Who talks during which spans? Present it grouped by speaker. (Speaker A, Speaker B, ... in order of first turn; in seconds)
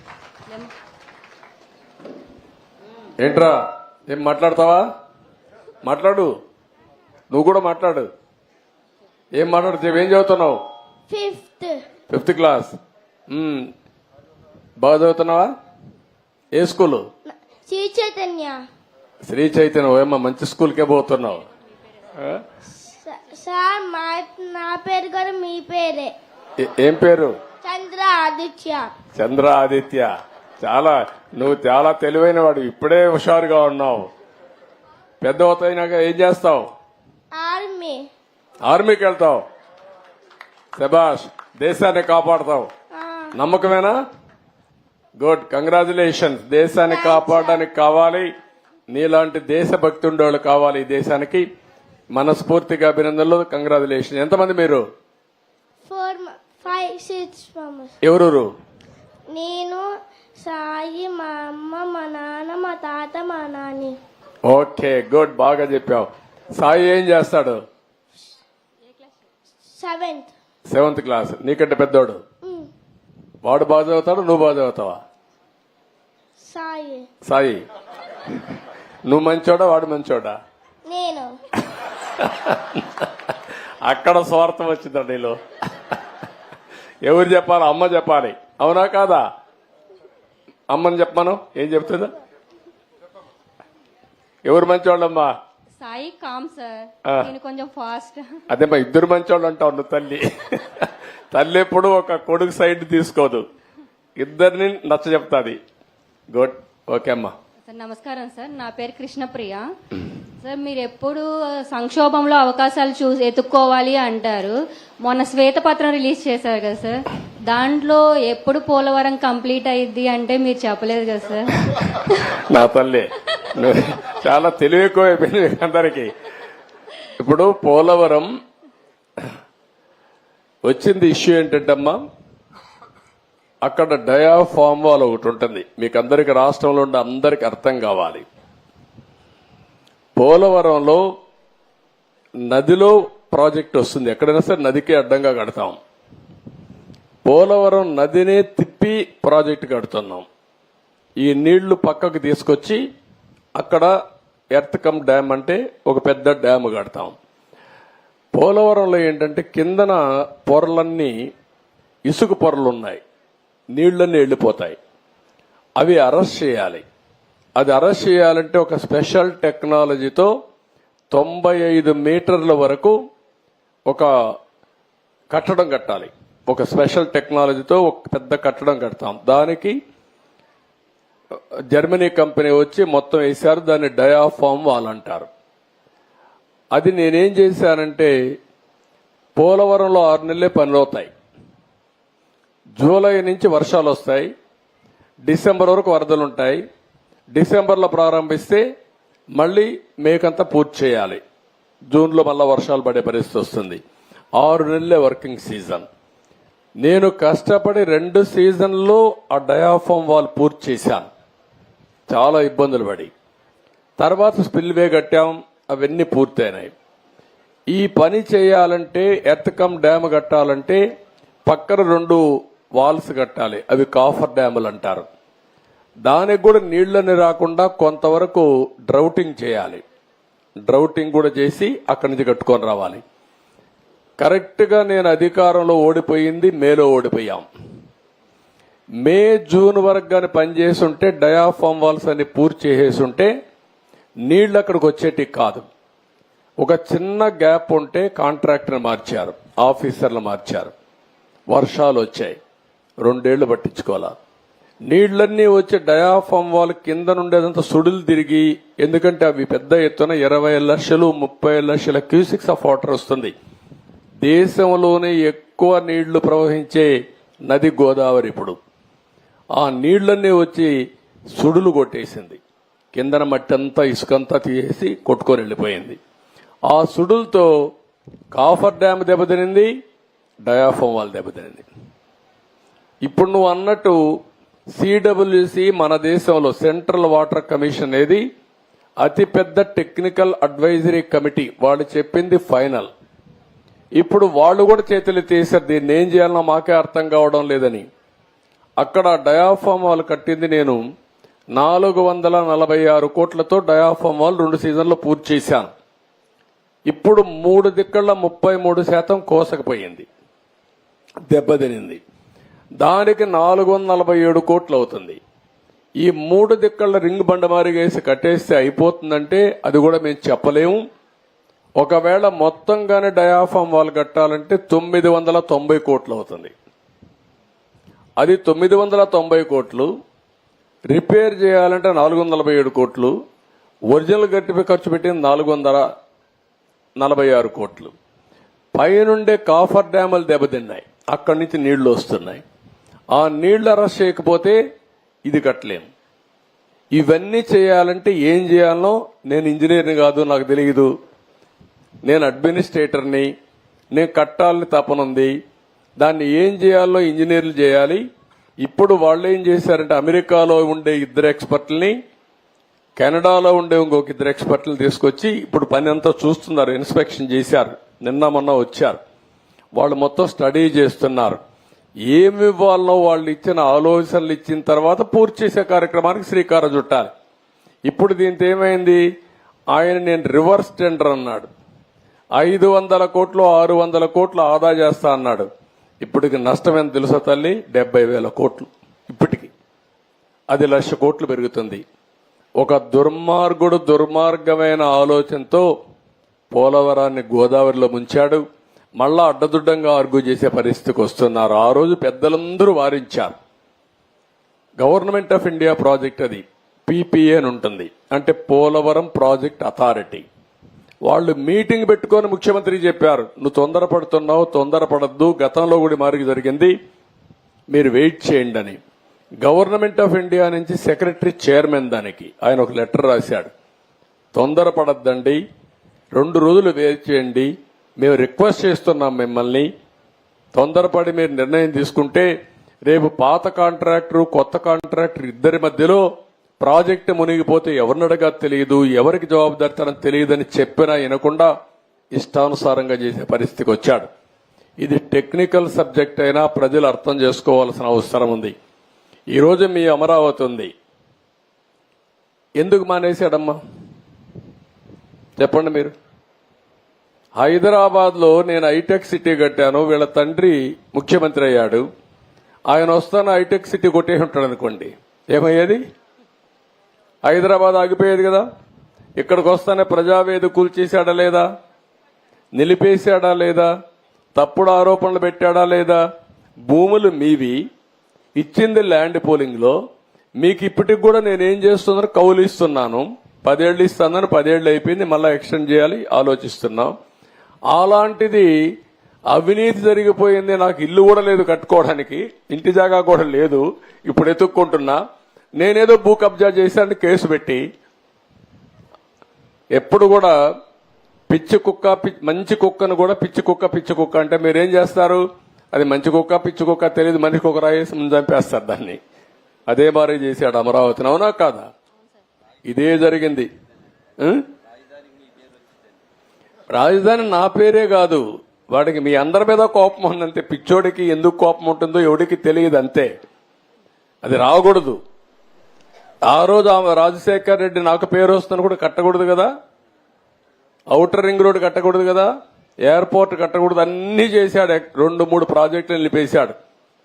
Speaker A: 3.2-3.6, 4.1-4.8, 5.8-6.3, 7.3-8.1, 9.3-10.6, 12.1-12.8, 13.3-13.7, 14.8-15.5, 16.5-17.0, 19.2-21.4, 22.1-22.4, 26.6-27.3, 29.1-30.1, 30.6-34.1, 35.2-36.6, 38.6-39.4, 40.8-42.7, 43.3-43.9, 45.2-48.3, 48.9-51.4, 52.1-54.8, 58.0-58.5, 64.5-67.6, 70.7-72.2, 73.4-75.0, 77.2-77.6, 79.1-80.4, 82.1-83.3, 83.8-85.4, 87.0-89.2, 90.7-92.1, 94.5-95.3, 98.5-103.4, 104.2-105.6, 106.3-107.3, 122.3-126.1, 127.2-128.3, 130.7-132.0, 133.7-138.3, 140.2-141.0, 142.4-145.8, 147.2-150.3, 151.2-152.8, 153.6-153.9, 154.5-157.1, 158.3-161.1, 162.1-163.0, 163.7-164.8, 165.8-166.8, 167.6-170.3, 171.1-173.0, 175.3-179.8, 181.7-185.3, 186.7-188.1, 189.3-191.1, 192.8-194.3, 195.3-196.6, 197.3-198.6, 199.4-201.2, 201.9-203.8, 204.4-205.8, 206.8-211.1, 212.1-213.1, 214.0-216.7, 217.7-220.8, 221.4-222.2, 222.8-225.1, 226.1-229.8, 230.7-233.0, 234.2-237.5, 239.0-243.3, 244.3-245.7, 246.6-250.7, 251.5-252.4, 253.0-254.1, 254.9-263.3, 264.2-266.9, 267.5-268.6, 269.6-270.7, 271.3-272.4, 272.9-276.0, 276.7-277.5, 278.3-279.7, 280.4-281.7, 283.0-284.0, 284.8-288.2, 289.0-292.9, 294.0-297.9, 298.8-300.8, 301.6-305.7, 306.9-310.1, 311.2-312.0, 312.8-315.2, 316.0-320.8, 321.8-326.5, 328.2-329.9, 330.9-333.1, 333.9-335.9, 337.0-337.9, 338.8-342.4, 343.1-344.6, 345.3-345.9, 346.9-350.9, 352.0-353.3, 353.9-355.3, 356.0-358.0, 358.6-361.9, 363.0-369.0, 369.8-371.4, 372.1-377.1, 377.9-379.0, 379.7-381.5, 382.4-385.5, 386.0-389.5, 390.5-391.8, 392.6-395.7, 396.5-398.4, 399.0-403.4, 404.8-410.2, 411.1-416.7, 417.7-418.8, 419.4-423.5, 424.3-425.4, 426.1-429.7, 430.5-432.3, 432.9-436.0, 436.6-441.5, 442.1-444.1, 444.8-448.5, 449.3-450.7, 452.6-453.6, 455.4-455.9, 457.4-461.8, 462.7-465.8, 467.2-468.4, 469.2-471.5, 472.6-473.7, 474.3-476.0, 476.7-477.6, 478.4-479.8, 480.4-486.9, 487.7-488.5, 489.3-495.0, 495.6-497.6, 499.7-500.4, 501.3-509.0, 509.7-511.7, 512.6-513.5, 514.2-514.5, 516.7-523.1, 524.2-525.0, 526.3-529.5, 530.9-532.3, 532.9-536.5
Speaker B: 11.1-11.8, 17.3-18.6, 22.7-26.1, 27.6-28.9, 37.3-38.0, 42.9-43.3, 46.8-47.6, 55.8-57.9, 59.3-59.8, 60.4-63.9, 69.8-70.3, 76.5-77.0, 80.9-81.3
Speaker C: 95.8-98.3, 107.7-109.7, 110.4-122.3